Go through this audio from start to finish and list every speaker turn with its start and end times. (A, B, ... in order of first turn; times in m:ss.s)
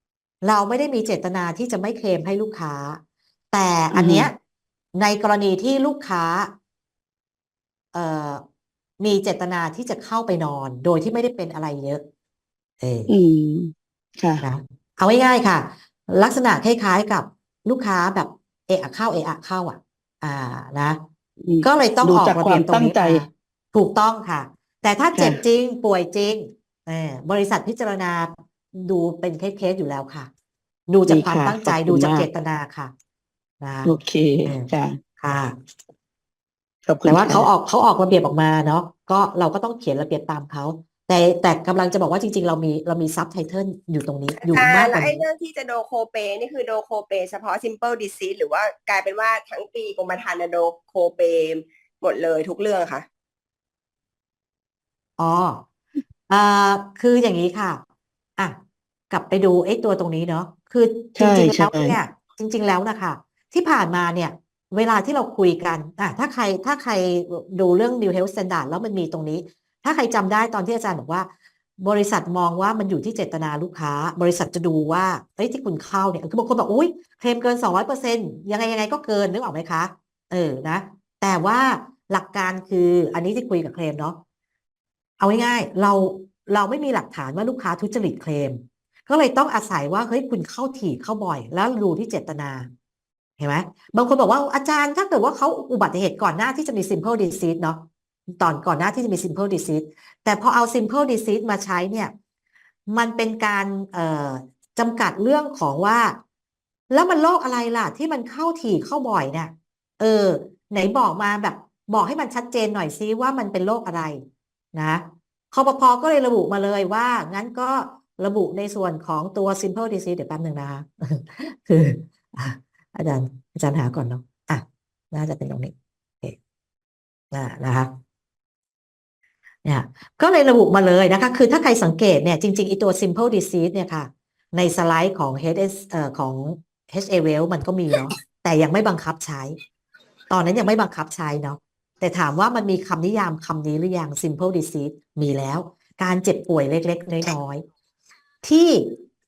0:00.4-0:03.0 A
0:03.5-0:04.3 A
0:03.9-0:04.3 B
0:04.9-0:06.5 A
0:07.9-0:08.4 A
0:09.0-0:12.0 A
0:12.8-0:13.1 A
0:13.1-0:14.4 B
0:14.4-0:21.0 A
0:21.4-0:23.3 B
0:21.6-0:30.3 A
0:25.1-0:25.4 B
0:30.9-0:32.9 A
0:31.1-0:32.3 B
0:33.6-0:33.9 A
0:33.8-0:35.0 B
0:34.4-0:35.5 A
0:36.8-0:37.5 B
0:37.0-0:45.2 A
0:44.4-0:53.0 C
0:55.2-0:55.6 A
0:56.3-0:57.8 A
0:59.1-1:11.3 A
1:01.2-1:02.0 B
1:11.8-1:24.2 A
1:25.2-1:32.7 A
1:33.4-1:42.1 A
1:42.9-1:46.2 A
1:46.9-1:54.2 A
1:54.7-2:06.4 A
2:07.3-2:07.9 A
2:09.6-2:19.6 A
2:20.3-2:27.6 A
2:28.4-2:29.0 A